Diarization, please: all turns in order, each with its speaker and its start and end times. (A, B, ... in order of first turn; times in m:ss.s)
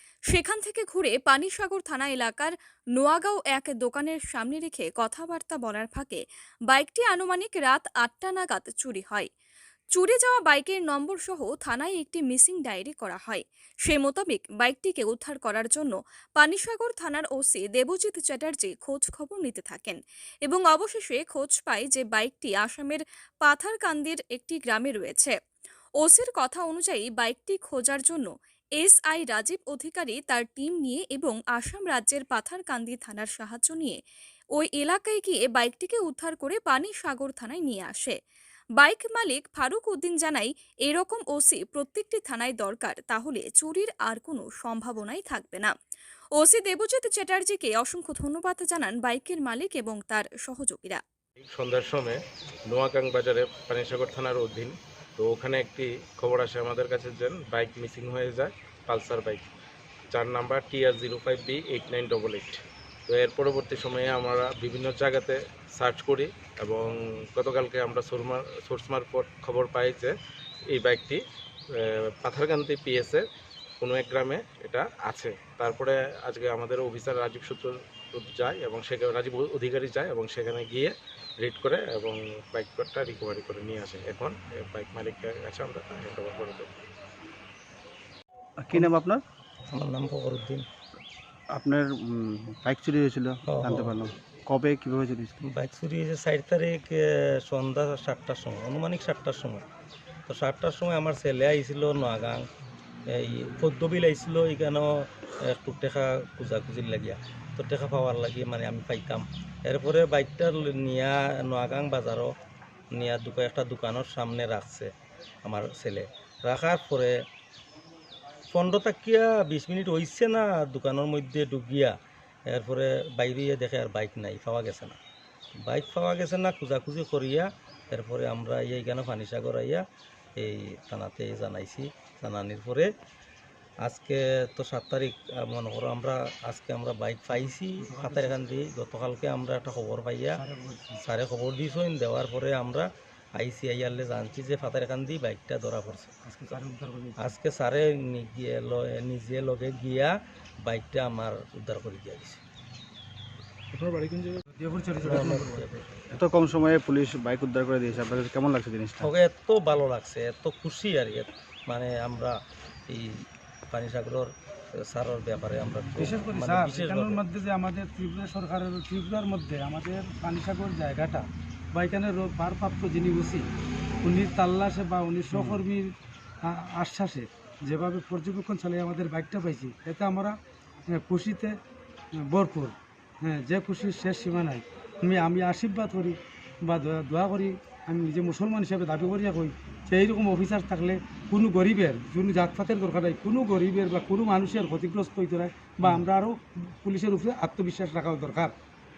0:00.3-0:09.3 A
0:10.0-0:25.4 A
0:26.0-0:34.0 A
0:34.6-0:38.2 A
0:38.8-0:45.7 A
0:46.4-0:51.0 A
0:51.4-0:59.5 B
1:00.1-1:10.1 B
1:10.7-1:11.2 B
1:11.8-1:13.2 B
1:13.8-1:26.7 B
1:28.6-1:29.2 C
1:29.7-1:30.6 D
1:31.5-1:35.4 C
1:33.5-1:34.0 D
1:35.4-1:39.6 D
1:40.3-1:42.4 D
1:43.1-1:52.3 D
1:52.9-1:54.9 D
1:55.4-1:57.2 D
1:58.5-2:02.0 D
2:02.5-2:05.0 D
2:05.6-2:09.8 D
2:10.4-2:12.9 D
2:13.8-2:20.4 D
2:17.8-2:18.4 E
2:20.4-2:21.0 E
2:21.0-2:26.1 D
2:26.3-2:27.3 E
2:27.2-2:30.1 D
2:30.6-2:32.4 D
2:33.7-2:34.4 B
2:34.5-2:35.7 E
2:35.0-2:36.0 D
2:36.1-2:39.1 C
2:39.0-2:42.4 D
2:42.9-2:47.2 D
2:46.0-2:53.4 E
2:54.0-2:55.9 E
2:55.3-2:55.6 C
2:56.4-3:00.4 E
3:00.9-3:01.5 E
3:02.2-3:18.5 E